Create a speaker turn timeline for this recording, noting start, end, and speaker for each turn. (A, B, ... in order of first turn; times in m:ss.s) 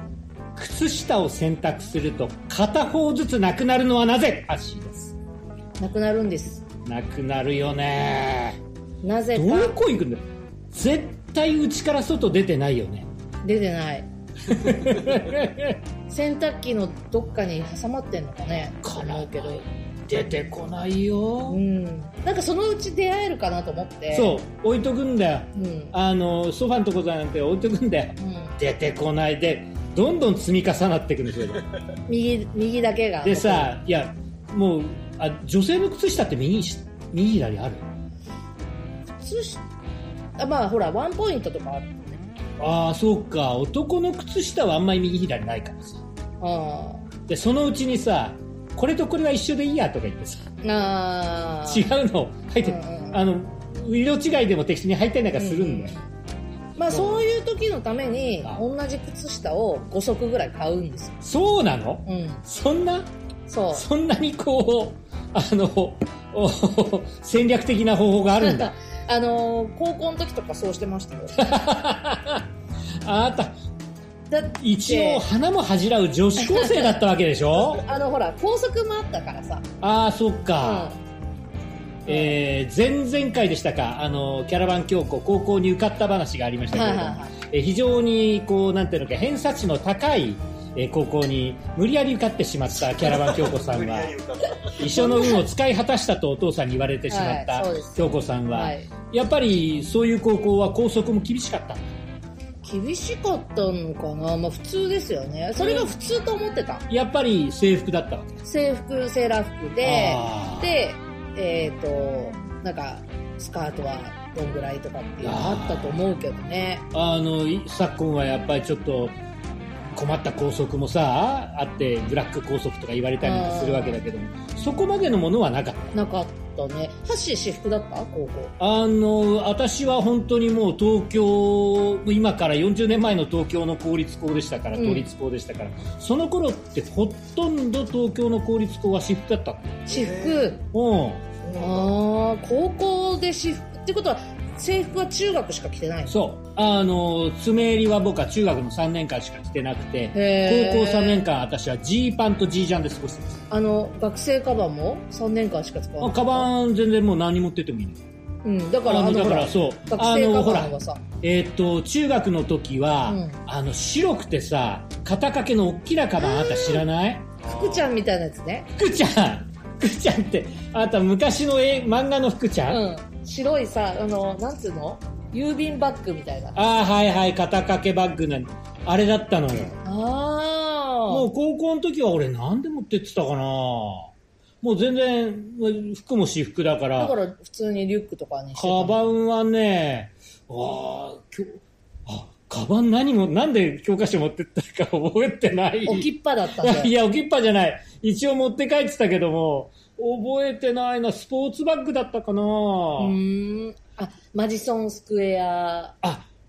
0:00.6-0:05.1 A
0:05.8-0:06.6 B
0:06.8-0:08.6 A
0:09.0-0:09.8 B
0:09.3-0:13.1 A
0:13.4-0:14.1 B
0:14.4-0:15.8 A
0:16.1-0:19.6 B
0:18.8-0:21.6 A
0:21.5-0:24.4 B
0:24.1-0:31.7 A
0:25.5-0:25.9 B
0:28.2-0:28.6 B
0:32.1-0:33.7 B
0:33.2-0:37.8 A
0:39.2-0:39.6 B
0:40.4-0:42.2 B
0:42.6-0:46.0 A
0:46.4-0:47.1 B
0:47.3-0:50.5 A
0:50.6-0:51.9 B
0:51.6-0:55.9 A
0:52.6-0:53.2 B
0:55.3-0:56.1 B
0:56.8-1:01.2 B
0:56.9-0:57.2 A
1:01.2-1:03.1 A
1:02.0-1:02.4 B
1:03.5-1:03.8 B
1:03.7-1:08.7 A
1:08.4-1:11.4 B
1:11.4-1:12.5 A
1:13.0-1:13.6 A
1:14.3-1:15.2 B
1:14.6-1:17.8 A
1:16.4-1:16.9 B
1:17.6-1:19.6 B
1:19.8-1:20.9 A
1:20.6-1:21.0 B
1:22.0-1:41.9 A
1:26.7-1:27.3 B
1:34.6-1:35.4 B
1:37.1-1:38.9 B
1:42.6-1:46.8 B
1:45.6-1:45.9 A
1:46.9-1:48.4 A
1:48.4-1:56.8 B
1:49.8-1:50.7 A
1:55.2-1:56.0 A
1:56.9-1:59.2 A
1:59.9-2:05.9 A
2:03.2-2:04.0 B
2:05.9-2:08.5 B
2:08.6-2:21.4 A
2:14.7-2:15.1 B
2:19.9-2:20.6 B
2:21.5-2:26.2 B
2:26.1-2:33.4 A
2:30.1-2:31.2 B
2:33.5-2:36.5 B
2:36.0-2:38.0 A
2:38.4-2:41.0 B
2:38.8-2:47.3 A
2:43.1-2:43.4 B
2:46.2-2:46.8 B
2:47.4-2:48.7 B
2:48.8-2:52.8 A
2:52.7-2:56.6 B
2:56.6-2:59.8 A
2:59.8-3:01.3 B
3:01.1-3:04.1 A
3:04.6-3:07.1 A
3:07.0-3:09.0 B
3:08.5-3:23.2 A
3:15.8-3:16.9 B
3:23.0-3:26.0 B
3:26.0-3:26.3 A